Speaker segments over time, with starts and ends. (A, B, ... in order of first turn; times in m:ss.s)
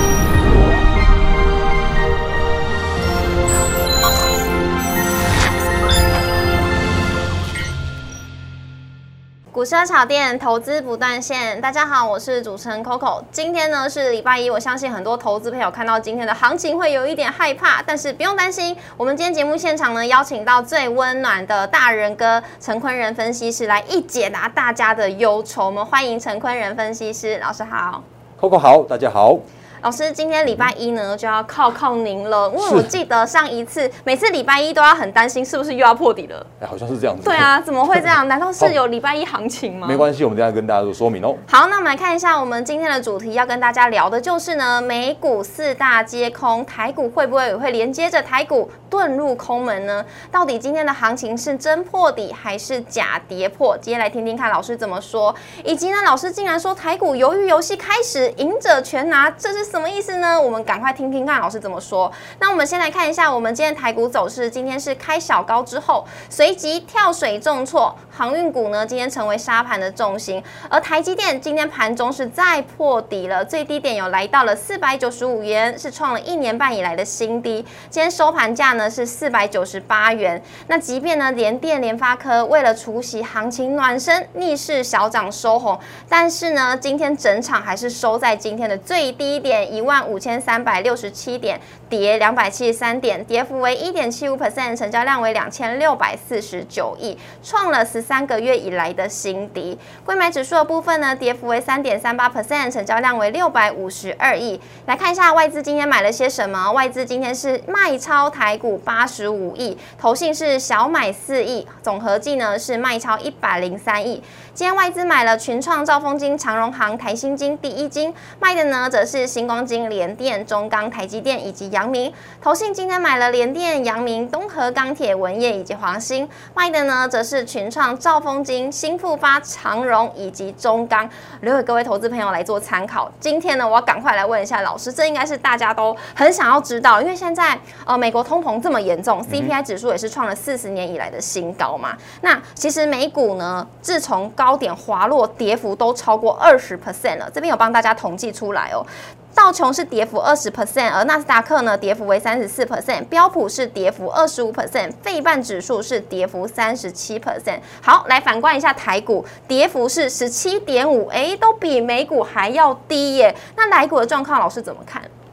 0:09.5-0:28.0 A
0:28.4-0:29.4 B
0:29.8-0:36.5 A
0:32.6-0:32.9 B
0:36.6-0:37.5 B
0:37.2-0:40.0 A
0:39.8-0:41.4 B
0:41.5-2:45.1 A